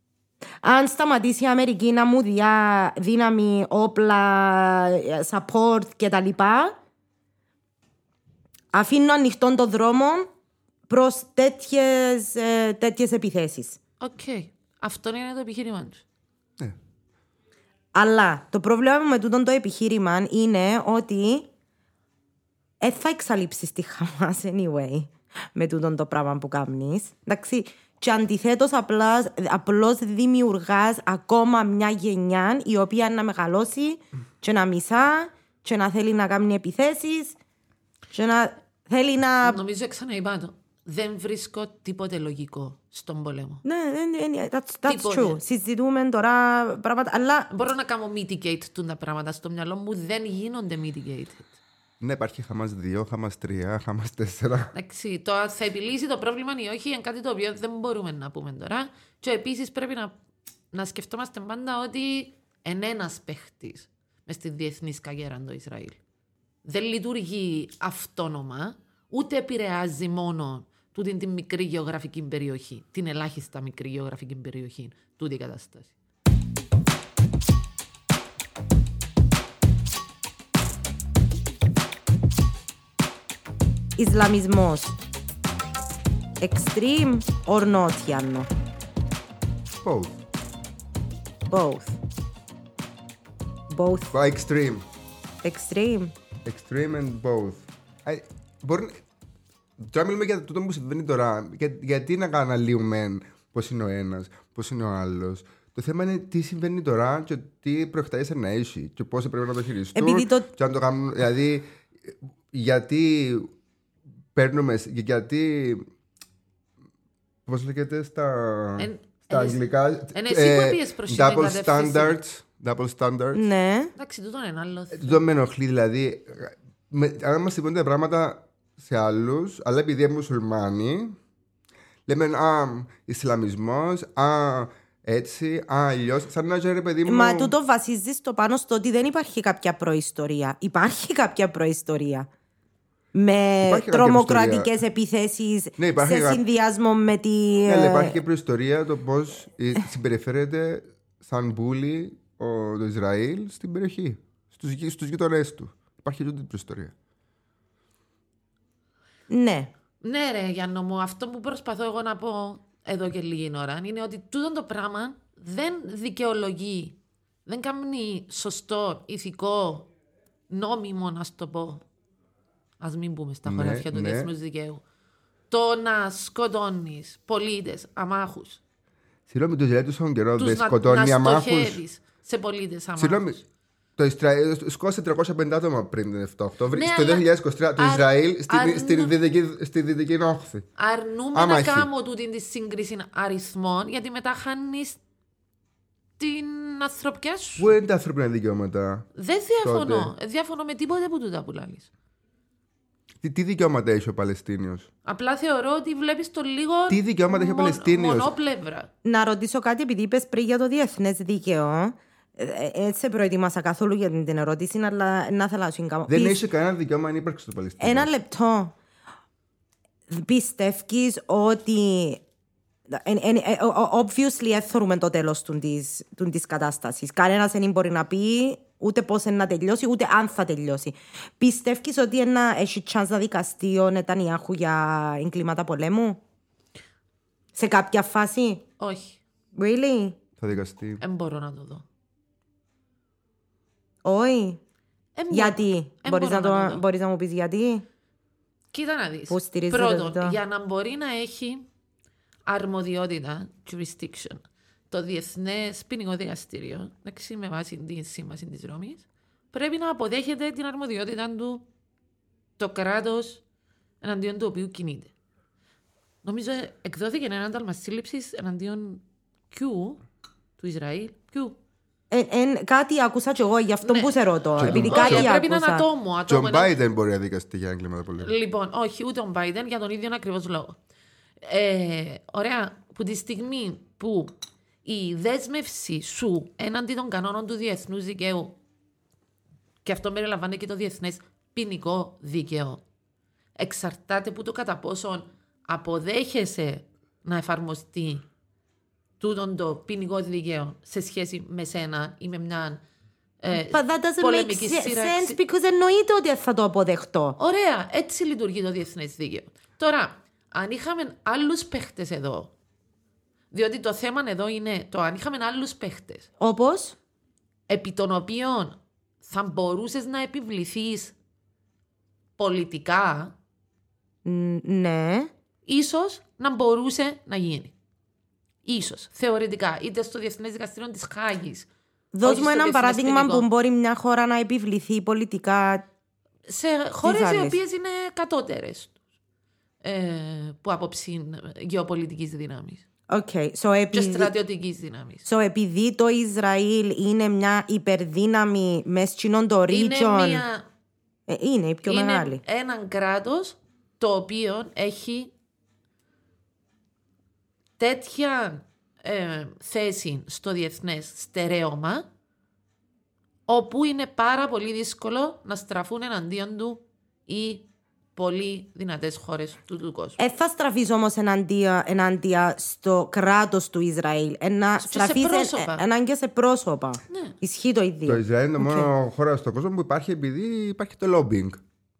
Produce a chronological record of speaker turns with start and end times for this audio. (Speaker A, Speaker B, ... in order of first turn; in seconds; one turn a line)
Speaker A: 0.6-6.8
Speaker A: 8.7-10.3
Speaker A: 10.9-13.8
Speaker B: 14.0-16.0
Speaker A: 17.9-21.5
Speaker A: 22.8-37.4
Speaker A: 38.1-39.6
Speaker B: 39.4-43.6
Speaker A: 43.6-47.5
Speaker B: 44.9-45.4
Speaker B: 47.5-51.6
Speaker C: 52.0-54.7
Speaker B: 54.7-60.1
Speaker B: 60.7-66.0
Speaker B: 66.6-75.9
Speaker A: 84.0-84.9
Speaker A: 86.4-88.5
Speaker C: 89.8-90.2
Speaker A: 91.5-92.0
Speaker A: 93.7-94.1
Speaker C: 94.1-94.8
Speaker A: 95.4-96.1
Speaker C: 96.4-99.0
Speaker C: 99.8-113.5
Speaker A: 109.9-110.5
Speaker C: 114.3-115.8
Speaker C: 117.5-123.5
Speaker B: 118.8-122.2
Speaker A: 123.3-123.9
Speaker B: 124.0-125.2
Speaker C: 124.9-131.1
Speaker C: 132.1-137.5
Speaker A: 137.1-142.3
Speaker A: 143.1-148.2
Speaker C: 143.6-144.7
Speaker C: 145.8-146.4
Speaker C: 147.7-156.9
Speaker A: 159.3-159.7
Speaker B: 160.0-169.9
Speaker B: 170.5-171.8
Speaker B: 172.8-174.8
Speaker C: 173.4-174.3
Speaker B: 175.5-178.6
Speaker C: 179.3-181.8
Speaker B: 180.4-183.4
Speaker C: 183.0-183.4
Speaker C: 184.0-190.7
Speaker B: 186.7-187.2
Speaker B: 187.8-189.1
Speaker B: 190.8-195.0
Speaker C: 191.3-191.9
Speaker B: 196.2-197.8
Speaker C: 197.6-199.1
Speaker B: 199.1-201.9
Speaker C: 199.6-200.1
Speaker C: 203.2-204.9
Speaker B: 205.0-208.9
Speaker C: 206.9-208.3
Speaker A: 209.0-216.4
Speaker C: 216.1-218.1
Speaker A: 217.8-218.7
Speaker A: 220.1-222.2
Speaker A: 222.9-236.2
Speaker A: 237.5-238.6
Speaker B: 238.8-239.2
Speaker A: 239.5-240.2
Speaker C: 240.4-241.0
Speaker B: 241.0-241.8
Speaker A: 244.0-244.6
Speaker B: 245.2-246.8
Speaker A: 245.3-247.8
Speaker B: 248.7-251.7
Speaker A: 249.3-250.4
Speaker B: 252.5-261.6
Speaker B: 262.6-263.4
Speaker B: 264.0-265.1
Speaker B: 266.2-270.0
Speaker B: 270.6-271.6
Speaker A: 272.1-275.9
Speaker B: 273.8-276.7
Speaker C: 274.6-275.3
Speaker C: 276.3-278.3
Speaker B: 278.2-280.8
Speaker B: 281.4-284.3
Speaker B: 284.8-288.6
Speaker B: 289.8-292.8
Speaker B: 293.6-298.2
Speaker B: 299.2-302.8
Speaker B: 303.4-305.4
Speaker A: 303.5-307.4
Speaker B: 307.4-312.5
Speaker B: 313.5-316.3
Speaker A: 316.4-316.9
Speaker B: 317.7-321.1
Speaker B: 322.4-323.3
Speaker A: 324.2-325.3
Speaker B: 325.6-327.7
Speaker B: 328.6-331.7
Speaker A: 332.1-335.8
Speaker B: 332.2-333.5
Speaker B: 336.5-338.9
Speaker A: 337.0-337.6
Speaker B: 339.8-342.8
Speaker A: 343.1-344.3
Speaker B: 343.9-345.2
Speaker A: 345.2-350.4
Speaker B: 349.7-350.6
Speaker A: 351.3-352.4
Speaker B: 351.8-355.3
Speaker B: 357.8-362.1
Speaker B: 363.5-370.2
Speaker A: 370.2-378.9
Speaker B: 374.8-375.8
Speaker B: 377.1-377.3
Speaker C: 378.1-381.6